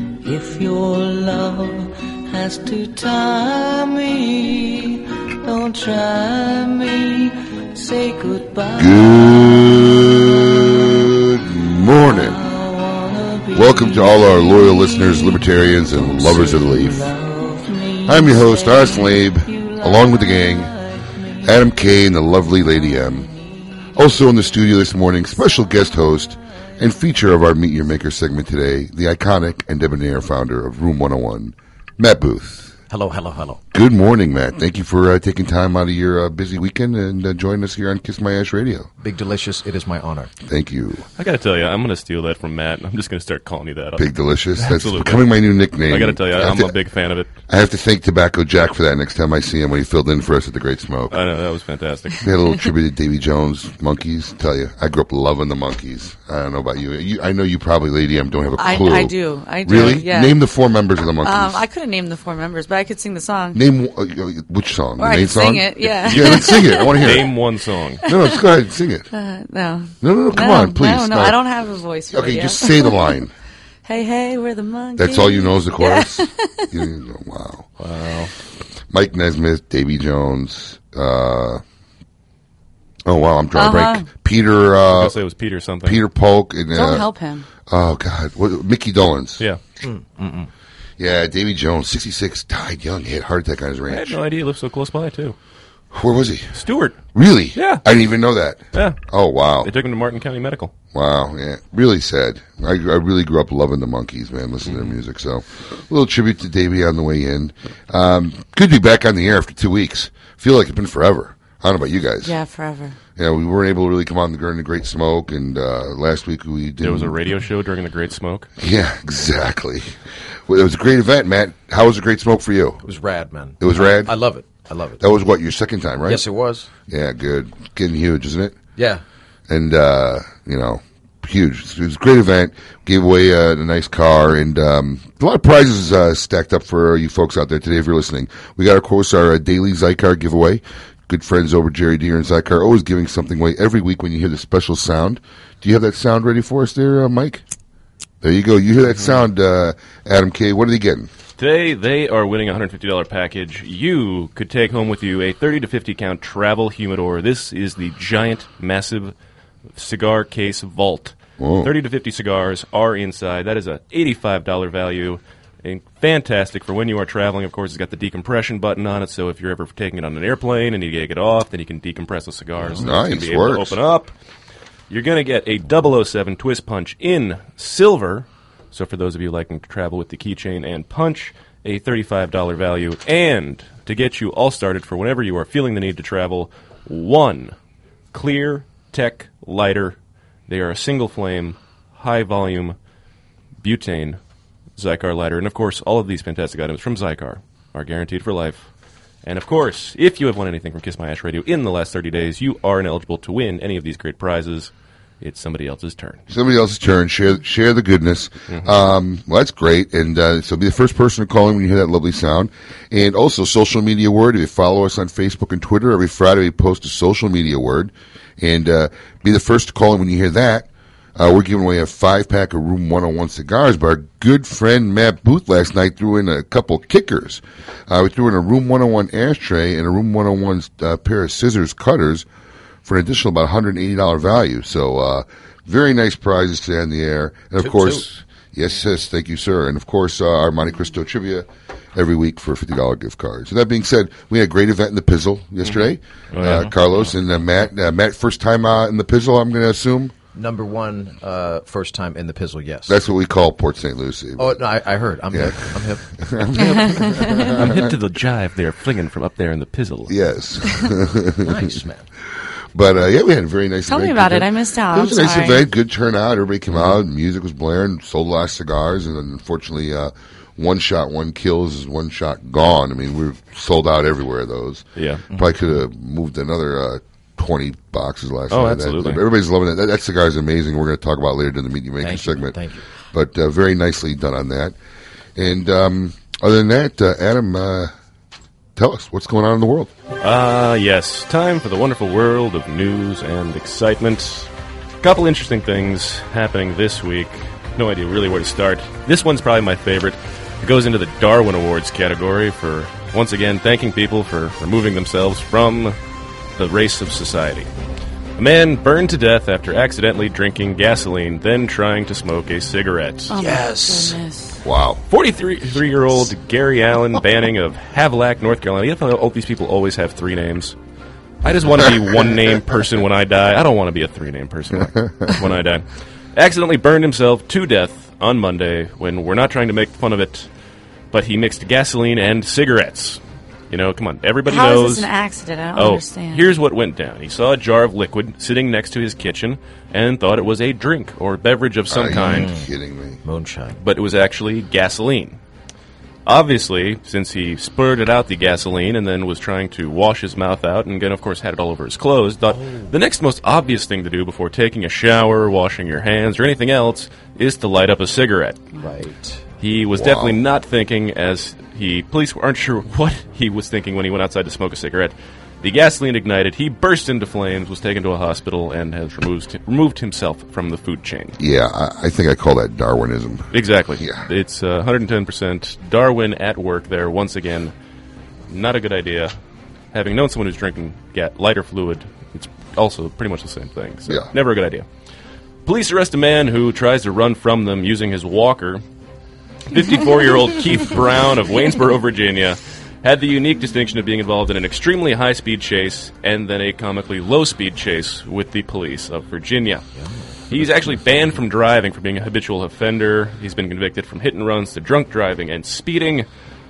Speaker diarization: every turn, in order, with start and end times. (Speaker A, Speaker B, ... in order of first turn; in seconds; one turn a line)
Speaker A: 0.2-9.6
Speaker B: 8.8-12.4
Speaker A: 12.1-21.7
Speaker B: 13.5-17.0
Speaker B: 18.0-20.7
Speaker B: 21.4-23.3
Speaker A: 22.7-23.4
Speaker B: 23.9-32.7
Speaker C: 32.9-33.6
Speaker B: 33.7-38.9
Speaker C: 39.0-40.3
Speaker B: 40.4-41.0
Speaker D: 41.2-45.3
Speaker B: 44.0-46.7
Speaker D: 45.8-47.3
Speaker B: 47.5-51.2
Speaker D: 51.1-52.2
Speaker B: 52.2-61.6
Speaker E: 58.6-60.3
Speaker E: 61.2-63.6
Speaker B: 63.5-67.3
Speaker E: 65.0-67.2
Speaker D: 66.0-68.0
Speaker B: 68.0-69.1
Speaker E: 69.1-73.1
Speaker B: 70.0-71.4
Speaker B: 72.1-73.3
Speaker E: 73.8-76.3
Speaker B: 75.0-77.7
Speaker D: 77.8-78.3
Speaker B: 78.9-81.6
Speaker B: 83.0-85.1
Speaker E: 83.5-84.0
Speaker D: 84.9-86.0
Speaker B: 85.8-87.1
Speaker E: 86.7-87.5
Speaker B: 87.7-89.4
Speaker C: 89.8-90.5
Speaker B: 91.0-94.2
Speaker D: 93.9-95.3
Speaker B: 95.9-96.6
Speaker D: 96.5-97.0
Speaker B: 97.1-99.7
Speaker D: 97.5-97.8
Speaker D: 98.7-99.0
Speaker D: 99.6-100.7
Speaker B: 100.9-112.3
Speaker D: 104.6-105.0
Speaker E: 112.2-113.0
Speaker B: 113.2-117.2
Speaker D: 116.8-118.5
Speaker B: 118.6-119.9
Speaker B: 120.5-122.8
Speaker C: 122.8-125.0
Speaker B: 123.6-124.1
Speaker B: 125.0-126.2
Speaker C: 126.0-126.7
Speaker B: 126.9-128.6
Speaker C: 128.8-129.0
Speaker B: 129.5-147.4
Speaker B: 148.2-151.1
Speaker D: 148.9-149.2
Speaker D: 151.4-159.1
Speaker D: 159.7-174.1
Speaker B: 161.4-161.7
Speaker B: 172.6-173.8
Speaker D: 174.9-187.5
Speaker D: 188.1-192.8
Speaker D: 193.6-194.2
Speaker D: 194.8-198.7
Speaker D: 199.2-206.2
Speaker B: 206.3-232.2
Speaker D: 208.5-208.7
Speaker B: 232.8-250.1
Speaker C: 237.6-238.0
Speaker D: 245.6-247.1
Speaker C: 250.3-253.0
Speaker B: 252.9-254.6
Speaker C: 254.4-256.0
Speaker B: 255.3-257.9
Speaker E: 256.7-257.1
Speaker D: 257.5-260.2
Speaker B: 260.1-261.8
Speaker C: 261.4-262.1
Speaker B: 262.7-282.6
Speaker E: 263.9-265.6
Speaker D: 266.7-266.9
Speaker D: 274.9-275.2
Speaker D: 278.5-279.2
Speaker C: 282.0-282.8
Speaker B: 283.1-284.8
Speaker B: 285.4-287.9
Speaker B: 288.8-289.9
Speaker D: 290.2-294.5
Speaker D: 295.0-306.0
Speaker D: 306.6-307.7
Speaker D: 308.4-313.4
Speaker E: 313.3-314.6
Speaker C: 313.4-314.2
Speaker B: 314.6-315.0
Speaker D: 315.1-320.7
Speaker D: 321.4-330.5
Speaker B: 321.8-322.6
Speaker B: 324.7-325.5
Speaker D: 331.1-335.1
Speaker E: 334.5-336.5
Speaker D: 335.7-342.5
Speaker B: 341.9-343.2
Speaker C: 342.2-342.7
Speaker C: 343.2-343.8
Speaker D: 343.8-345.4
Speaker D: 346.2-358.6
Speaker C: 352.5-352.8
Speaker C: 358.8-359.4
Speaker D: 359.6-371.4
Speaker B: 359.9-360.4
Speaker B: 371.4-374.2
Speaker D: 373.5-377.7
Speaker D: 378.5-379.4
Speaker D: 379.9-384.9
Speaker D: 385.6-388.8
Speaker D: 389.7-399.8
Speaker C: 399.9-401.3
Speaker D: 400.5-406.2